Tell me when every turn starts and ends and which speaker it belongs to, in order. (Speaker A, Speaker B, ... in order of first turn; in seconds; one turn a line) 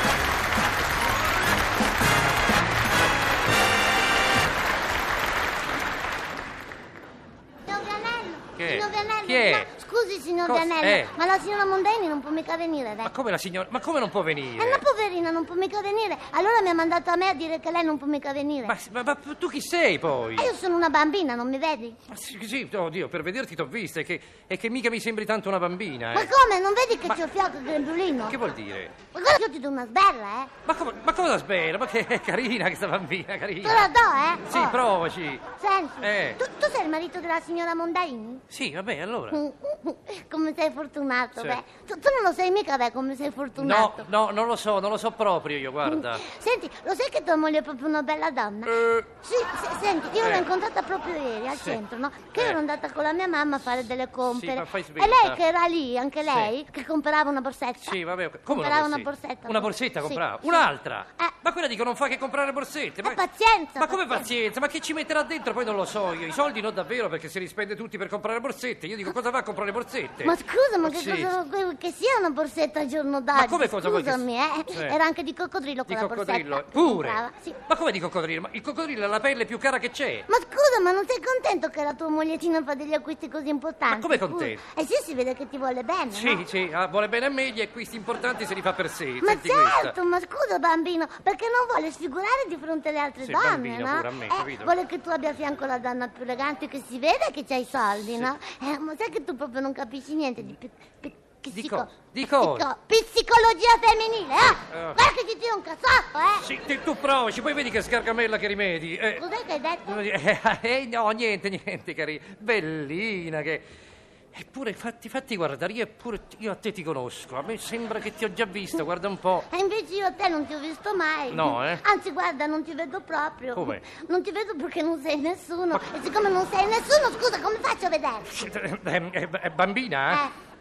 Speaker A: 7.7-13.1
Speaker B: 8.6-9.7
Speaker B: 10.4-11.2
Speaker B: 13.0-14.8
Speaker A: 14.6-18.8
Speaker B: 18.6-20.5
Speaker A: 20.4-22.0
Speaker B: 22.1-26.3
Speaker A: 26.1-28.4
Speaker B: 28.3-28.9
Speaker A: 29.1-30.5
Speaker B: 30.7-33.9
Speaker A: 33.6-34.8
Speaker B: 34.5-35.4
Speaker A: 35.6-38.4
Speaker B: 36.0-36.4
Speaker B: 38.5-39.4
Speaker A: 39.3-44.1
Speaker B: 43.6-46.2
Speaker A: 45.9-58.0
Speaker B: 48.7-49.1
Speaker B: 50.2-50.5
Speaker B: 51.5-51.8
Speaker B: 54.3-55.4
Speaker B: 56.3-56.5
Speaker B: 57.9-63.2
Speaker A: 58.5-61.4
Speaker A: 63.0-64.3
Speaker B: 63.8-71.3
Speaker A: 70.2-77.6
Speaker B: 73.3-75.0
Speaker B: 75.9-80.3
Speaker A: 80.3-86.5
Speaker B: 83.9-84.6
Speaker B: 86.1-90.0
Speaker A: 89.2-106.5
Speaker B: 93.2-94.8
Speaker B: 101.5-102.7
Speaker B: 104.4-105.1
Speaker B: 106.4-109.2
Speaker A: 109.2-110.0
Speaker B: 109.9-113.7
Speaker B: 114.3-119.5
Speaker A: 119.5-128.4
Speaker B: 121.3-121.8
Speaker B: 123.6-123.8
Speaker B: 128.3-130.2